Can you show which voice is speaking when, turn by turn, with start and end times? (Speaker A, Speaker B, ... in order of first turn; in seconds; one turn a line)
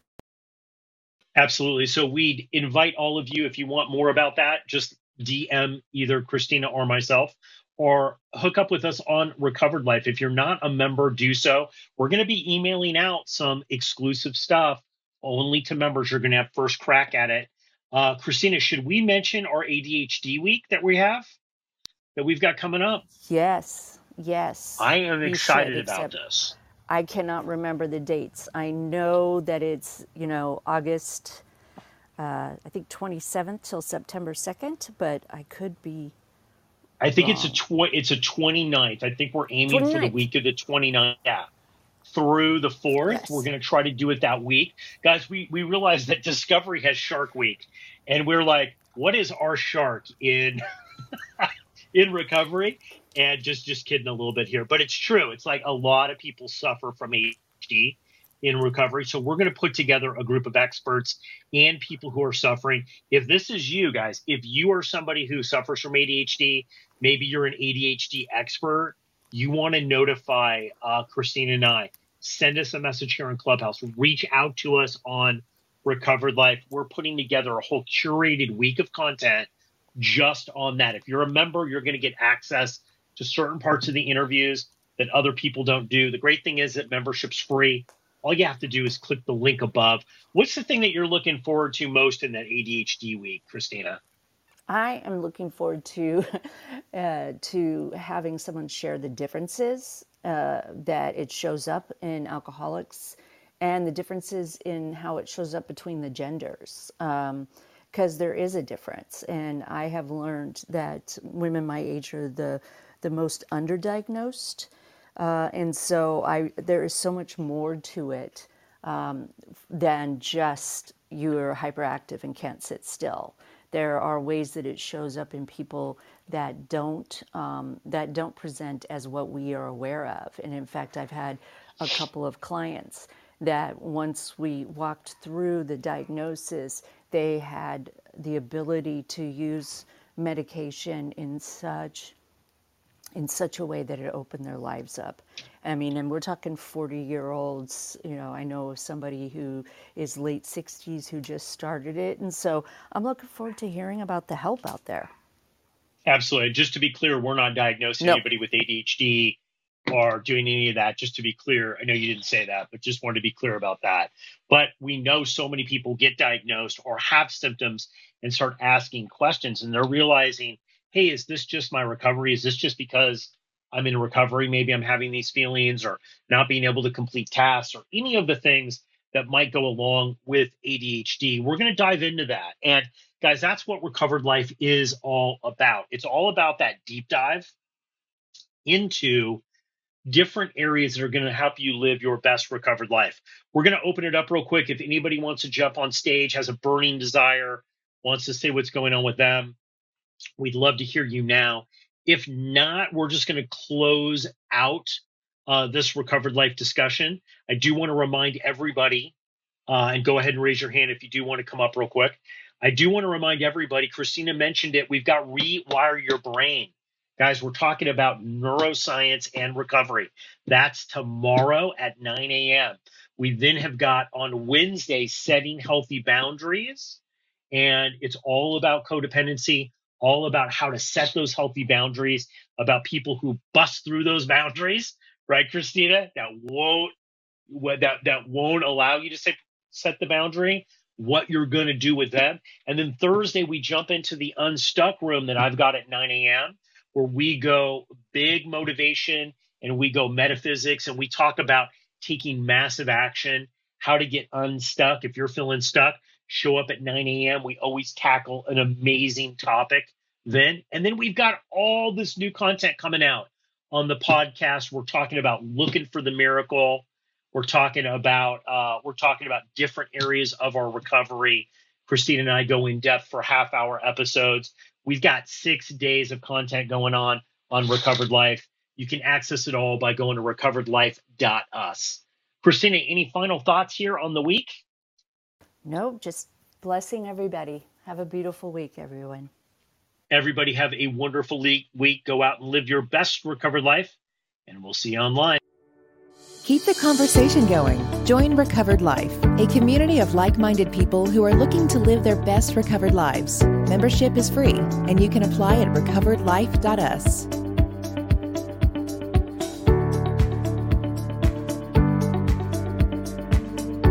Speaker A: 1.4-21.4
Speaker A: 22.2-23.1
Speaker B: 23.2-26.2
Speaker A: 24.8-26.6
Speaker B: 26.9-31.4
Speaker B: 32.2-36.1
Speaker A: 37.0-41.5
Speaker B: 37.2-37.6
Speaker B: 39.7-40.2
Speaker A: 42.1-50.6
Speaker B: 43.1-43.5
Speaker A: 51.4-94.0
Speaker B: 94.7-142.2
Speaker B: 143.2-155.1
Speaker A: 156.1-159.4
Speaker A: 159.9-187.5
Speaker A: 188.7-189.4
Speaker A: 190.1-199.6
Speaker A: 200.4-209.1
Speaker A: 209.7-227.0
Speaker A: 227.5-236.9
Speaker A: 237.5-284.6
Speaker B: 285.6-289.3
Speaker A: 290.1-293.9
Speaker A: 294.5-295.4
Speaker C: 296.4-307.3